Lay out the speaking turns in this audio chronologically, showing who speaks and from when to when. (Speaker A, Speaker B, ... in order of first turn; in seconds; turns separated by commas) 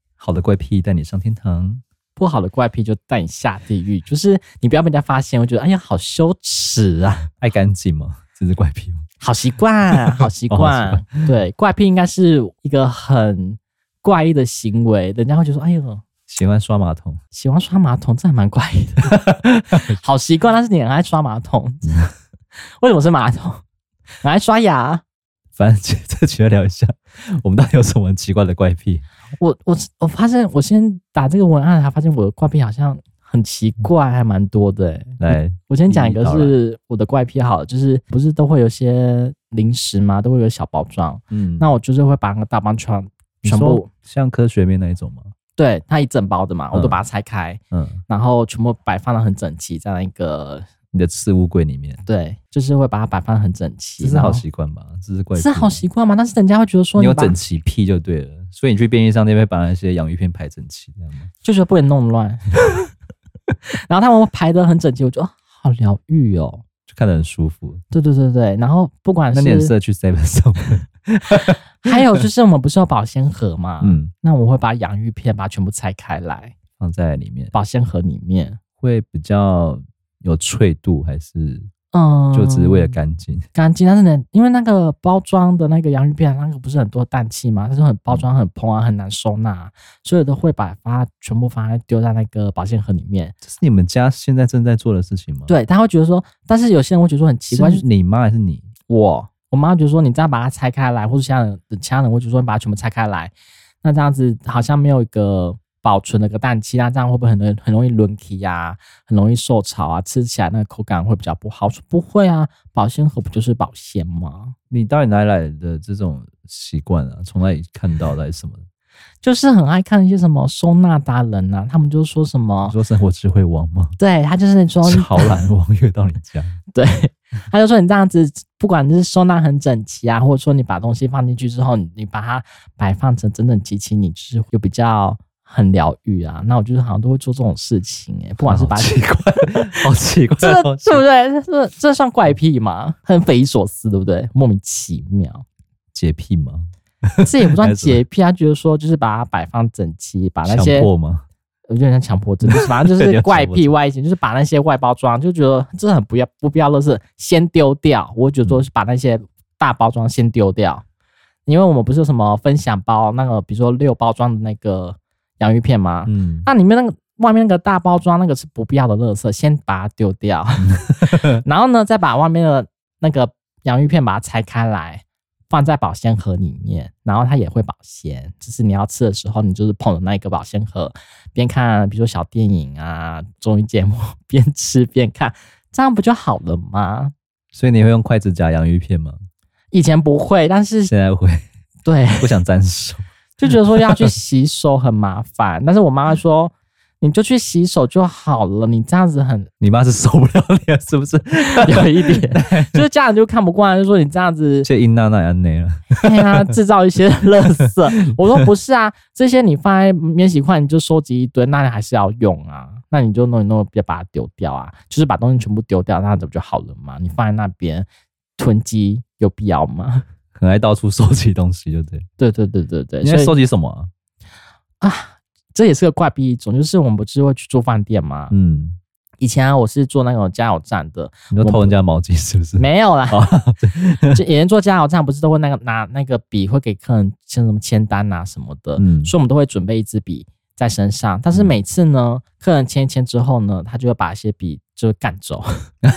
Speaker A: 0.2-1.8, Speaker B: 2.2-7.3, Speaker A: 7.4-9.0, Speaker B: 9.2-16.0, Speaker A: 10.2-11.2, Speaker A: 16.3-17.2, Speaker B: 17.3-19.2, Speaker A: 19.2-20.0, Speaker B: 19.7-22.0, Speaker B: 22.8-23.6, Speaker B: 24.2-25.0, Speaker A: 25.6-29.0, Speaker B: 29.4-43.9, Speaker A: 35.2-36.5, Speaker A: 41.3-41.7, Speaker A: 43.4-45.3, Speaker B: 45.6-50.6, Speaker A: 46.7-47.0, Speaker A: 47.7-48.0, Speaker A: 50.9-52.0, Speaker B: 52.0-54.4, Speaker A: 54.0-55.8, Speaker B: 55.4-57.4, Speaker A: 57.0-61.3, Speaker B: 61.4-62.6, Speaker B: 63.9-66.6, Speaker A: 66.9-67.8, Speaker B: 67.9-69.7, Speaker A: 69.3-72.0, Speaker B: 71.8-76.5, Speaker A: 73.8-74.1, Speaker A: 76.8-77.5, Speaker B: 77.5-78.6, Speaker A: 78.8-81.7, Speaker B: 81.9-83.0, Speaker A: 82.3-83.5, Speaker B: 83.5-93.4, Speaker A: 93.4-95.5, Speaker B: 95.5-97.8, Speaker A: 97.5-98.7, Speaker B: 98.9-114.5, Speaker A: 114.7-118.6, Speaker B: 119.2-122.8, Speaker A: 122.7-124.0, Speaker B: 124.0-125.4, Speaker A: 124.8-126.6, Speaker B: 126.7-139.0, Speaker A: 138.4-141.0, Speaker B: 140.4-145.4, Speaker A: 145.9-148.0, Speaker B: 147.2-150.9, Speaker A: 150.4-151.2, Speaker B: 151.7-160.8, Speaker A: 152.4-153.7, Speaker B: 161.4-187.1, Speaker A: 166.1-166.5, Speaker A: 170.6-171.4, Speaker A: 187.5-189.2, Speaker B: 189.7-190.9, Speaker A: 190.9-191.4, Speaker B: 191.8-192.4, Speaker A: 192.2-194.0, Speaker B: 193.4-199.5, Speaker A: 199.6-202.8, Speaker B: 201.5-204.7, Speaker A: 204.6-206.2, Speaker B: 205.9-220.1, Speaker A: 220.3-222.1, Speaker B: 222.2-223.3, Speaker A: 223.0-223.9, Speaker B: 224.8-228.3, Speaker A: 228.3-228.8, Speaker B: 229.2-231.8, Speaker A: 231.3-234.2, Speaker B: 232.6-233.2, Speaker B: 234.1-245.7, Speaker A: 238.8-239.1